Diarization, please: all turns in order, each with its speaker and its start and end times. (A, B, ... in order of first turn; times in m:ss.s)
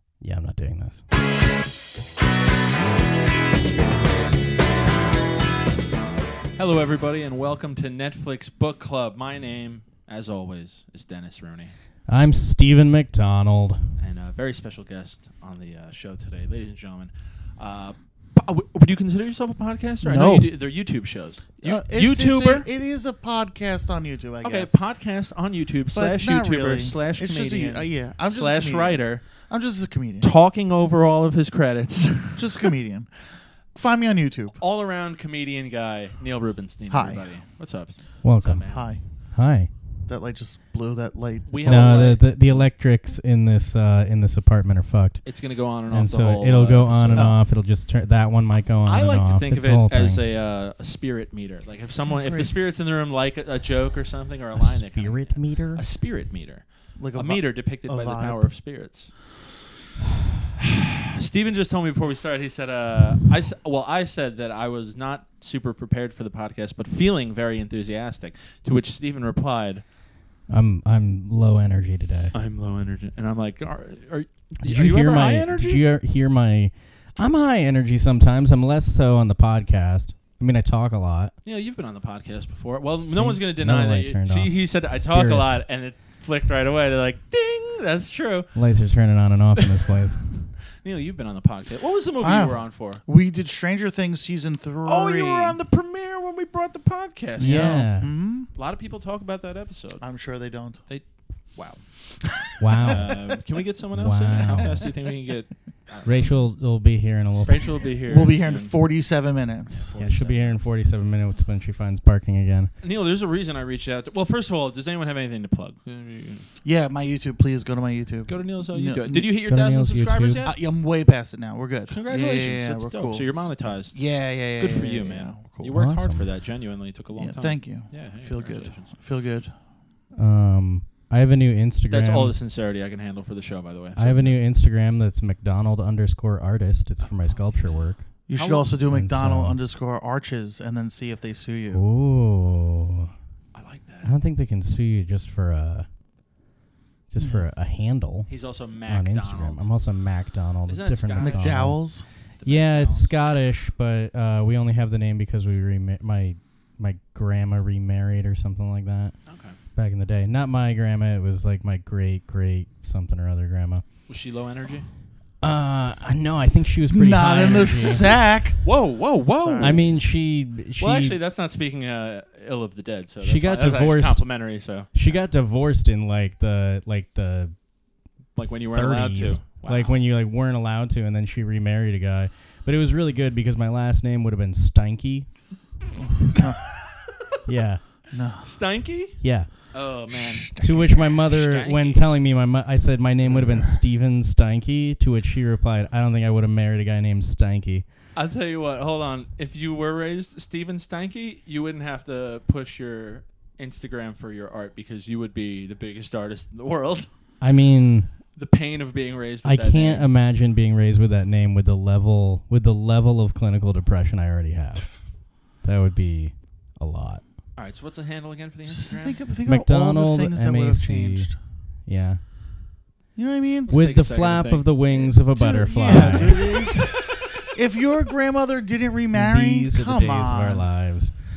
0:00.2-0:01.0 A
0:06.6-0:11.7 B
0:12.1-0:13.8 A
0:14.0-0:22.7 B
0:20.0-0:20.5 C
0:21.6-0:24.8 C
0:24.4-0:29.2 B
0:25.9-0:30.3 C
0:30.2-0:32.7 B
0:32.4-0:33.1 C
0:33.7-0:34.5 C
0:34.6-0:38.9 B
0:36.9-0:37.2 C
0:38.2-0:38.7 A
0:38.7-0:39.0 C
0:39.3-0:39.7 A
0:40.1-0:42.6 C
0:41.5-0:42.2 B
0:41.6-0:45.2 A
0:45.2-0:47.3 B
0:45.9-0:50.2 A
0:48.8-0:59.1 B
0:52.0-0:52.5 C
0:54.5-0:55.8 A
0:57.0-0:58.5 C
1:01.2-1:09.8 B
1:10.5-1:12.3 A
1:12.3-1:15.8 B
1:14.6-1:21.3 A
1:21.4-1:28.5 B
1:23.1-1:25.6 A
1:28.5-1:30.2 A
1:30.4-1:33.0 B
1:32.2-1:35.6 C
1:34.8-1:37.9 B
1:37.4-1:38.1 A
1:37.4-1:38.5 C
1:38.5-1:40.0 B
1:40.0-1:40.8 C
1:40.9-1:41.8 B
1:42.6-1:43.4 A
1:42.6-1:43.4 C
1:42.8-1:46.4 B
1:43.9-1:44.9 A
1:46.0-1:47.8 A
1:47.4-1:48.7 B
1:48.1-1:49.9 C
1:49.8-1:50.6 B
1:50.0-1:52.7 A
1:52.8-1:56.4 B
1:56.6-1:59.3 C
1:58.3-2:00.6 B
1:59.5-2:00.4 A
2:00.4-2:05.8 C
2:01.9-2:04.0 B
2:04.6-2:08.9 B
2:05.6-2:06.3 A
2:07.2-2:09.5 C
2:10.2-2:12.3 A
2:11.9-2:14.4 B
2:14.0-2:18.1 A
2:17.0-2:17.6 B
2:18.3-2:21.8 C
2:18.3-2:18.7 B
2:18.9-2:19.6 A
2:21.7-2:23.1 A
2:23.5-2:24.1 B
2:24.0-2:25.9 A
2:27.1-2:28.3 A
2:27.2-2:27.4 C
2:28.3-2:29.7 B
2:28.9-2:31.8 A
2:30.7-2:31.8 B
2:31.2-2:32.0 C
2:32.4-2:33.1 B
2:32.4-2:39.2 A
2:39.3-2:39.6 B
2:39.8-2:43.8 A
2:44.1-2:44.9 B
2:45.4-2:48.0 A
2:46.9-2:48.6 C
2:48.1-2:49.8 B
2:49.4-2:49.8 C
2:49.6-2:51.2 A
2:50.8-2:54.9 B
2:53.2-2:54.2 A
2:54.9-2:57.5 A
2:58.4-2:59.9 B
2:58.7-3:05.3 A
3:06.0-3:06.6 C
3:07.4-3:07.8 A
3:08.1-3:08.5 C
3:08.4-3:09.2 B
3:09.2-3:09.5 A
3:09.7-3:12.1 B
3:10.1-3:11.0 C
3:10.6-3:17.8 A
3:13.3-3:13.8 C
3:18.1-3:27.1 B
3:27.4-3:28.1 A
3:28.4-3:30.1 B
3:29.4-3:34.9 A
3:35.6-3:37.2 A
3:37.6-3:39.2 B
3:38.7-3:41.4 C
3:39.4-3:41.3 A
3:41.8-3:42.2 A
3:43.2-3:43.7 C
3:43.7-3:44.6 B
3:43.7-3:46.6 A
3:44.8-3:50.7 C
3:45.9-3:46.8 B
3:49.1-3:51.1 A